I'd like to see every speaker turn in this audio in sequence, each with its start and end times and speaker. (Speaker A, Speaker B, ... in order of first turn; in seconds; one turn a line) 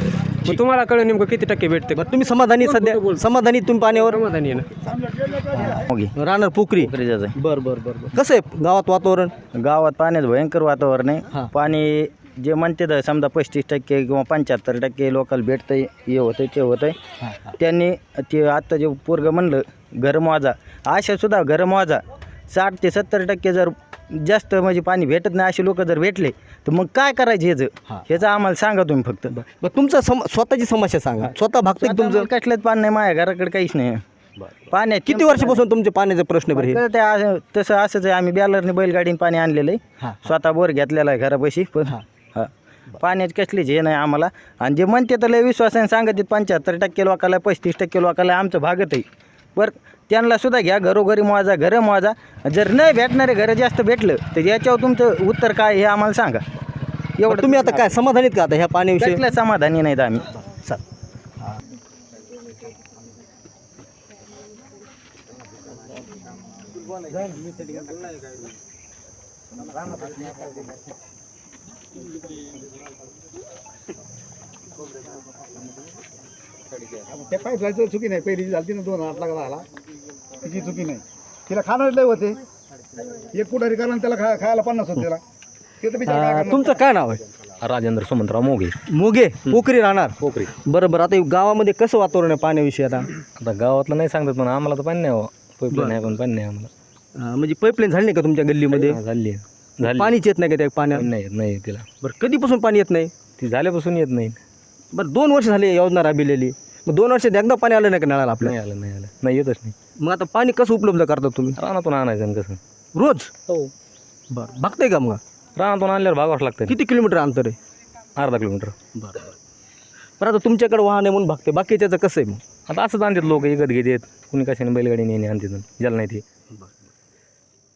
Speaker A: 0.4-2.0
Speaker B: 1.9-4.2
Speaker A: 2.6-3.2
Speaker A: 3.9-4.7
Speaker B: 5.5-9.3
Speaker C: 5.7-6.1
Speaker C: 6.8-7.3
Speaker C: 9.6-16.9
Speaker B: 17.2-17.5
Speaker C: 17.6-29.4
Speaker B: 29.3-32.2
Speaker C: 31.8-34.0
Speaker C: 34.7-35.6
Speaker B: 35.0-36.8
Speaker C: 36.5-49.0
Speaker C: 49.5-56.4
Speaker C: 57.2-58.0
Speaker B: 57.3-59.2
Speaker C: 59.0-60.3
Speaker D: 77.1-79.6
Speaker D: 80.4-82.4
Speaker D: 83.3-85.2
Speaker D: 85.8-86.8
Speaker B: 86.1-87.2
Speaker E: 87.6-88.7
Speaker B: 88.9-93.1
Speaker E: 90.2-90.5
Speaker E: 93.3-96.7
Speaker B: 95.7-96.2
Speaker B: 97.1-99.0
Speaker E: 98.7-100.2
Speaker B: 99.8-101.1
Speaker E: 100.9-101.8
Speaker B: 102.0-103.1
Speaker E: 103.4-104.4
Speaker B: 104.9-108.5
Speaker E: 108.4-109.7
Speaker B: 110.0-111.6
Speaker E: 111.6-112.6
Speaker B: 112.9-113.3
Speaker B: 114.3-115.2
Speaker E: 115.5-116.8
Speaker B: 116.6-117.6
Speaker E: 118.2-118.7
Speaker B: 118.9-119.3
Speaker B: 120.2-122.4
Speaker E: 122.7-126.2